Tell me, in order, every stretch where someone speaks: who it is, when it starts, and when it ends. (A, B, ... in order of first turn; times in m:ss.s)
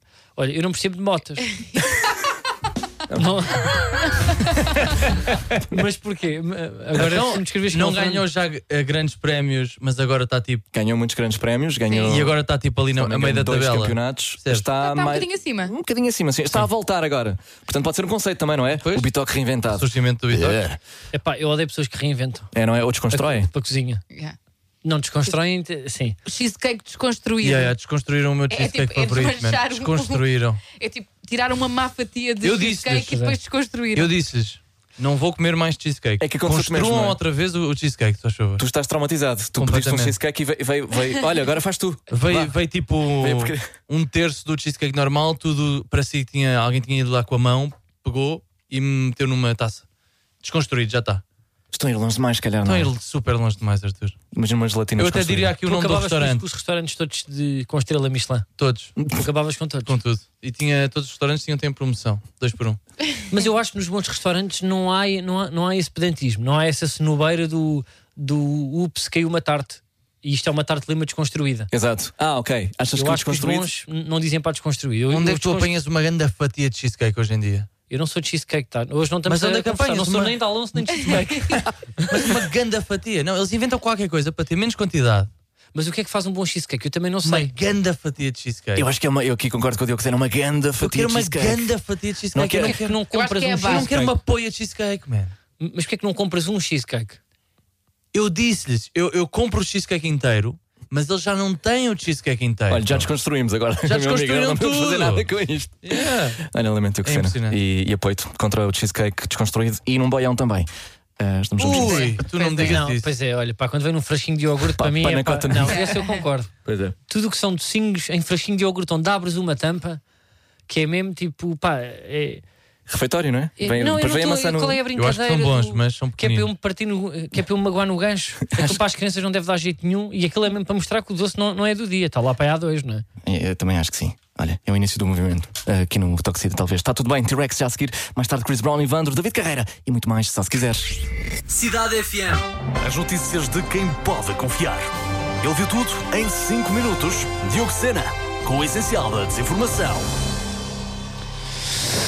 0:00.4-0:01.5 A
0:03.1-0:03.7 A
0:05.6-0:08.2 A
0:07.0-0:10.6 B
0:10.7-0:12.4 C
0:12.0-0:14.7 B
0:12.9-0:19.9 C
0:14.7-0:15.7 D
0:18.8-0:19.1 B
0:19.7-0:20.6 B
0:20.3-0:20.8 E
0:21.1-0:22.5 A
0:22.5-0:23.5 C
0:23.1-0:24.0 A
0:24.1-0:24.4 D
0:24.8-0:26.2 A
0:26.2-0:27.7 D
0:27.4-0:30.6 B
0:28.5-0:34.1 D
0:32.4-0:33.3 B
0:33.0-0:33.3 A
0:33.9-0:38.6 B
0:36.2-0:37.2 C
0:38.6-0:42.6 C
0:39.6-0:40.1 B
0:42.1-0:49.8 B
0:43.2-0:43.7 C
0:50.4-0:51.2 B
0:51.7-0:52.9 C
0:52.6-0:54.2 B
0:54.3-0:55.5 C
0:55.0-0:56.4 B
0:55.6-0:58.4 A
0:58.6-0:59.0 B
0:59.0-0:59.2 C
0:59.1-1:00.0 A
0:59.9-1:02.8 B
1:03.3-1:11.7 A
1:11.7-1:13.7 C
1:12.9-1:15.7 A
1:15.1-1:17.7 B
1:17.9-1:21.7 A
1:19.2-1:25.3 B
1:25.7-1:27.5 A
1:27.2-1:28.9 B
1:28.8-1:31.7 C
1:30.8-1:33.0 B
1:32.3-1:32.8 C
1:32.6-1:34.2 A
1:33.1-1:33.9 D
1:33.6-1:35.3 B
1:35.6-1:37.2 A
1:38.1-1:43.1 B
1:42.7-1:52.2 C
1:43.8-1:45.3 B
1:45.8-1:46.4 B
1:47.0-1:47.6 B
1:51.6-1:53.0 B
1:51.7-1:52.8 D
1:52.6-1:56.5 A
1:54.7-1:55.9 C
1:55.7-1:56.2 D
1:56.6-1:56.9 C
1:57.1-2:00.0 A
2:00.7-2:02.4 A
2:02.9-2:04.8 C
2:03.6-2:13.0 A
2:05.0-2:06.5 B
2:13.2-2:21.1 C
2:21.5-2:24.9 E
2:25.4-2:30.1 E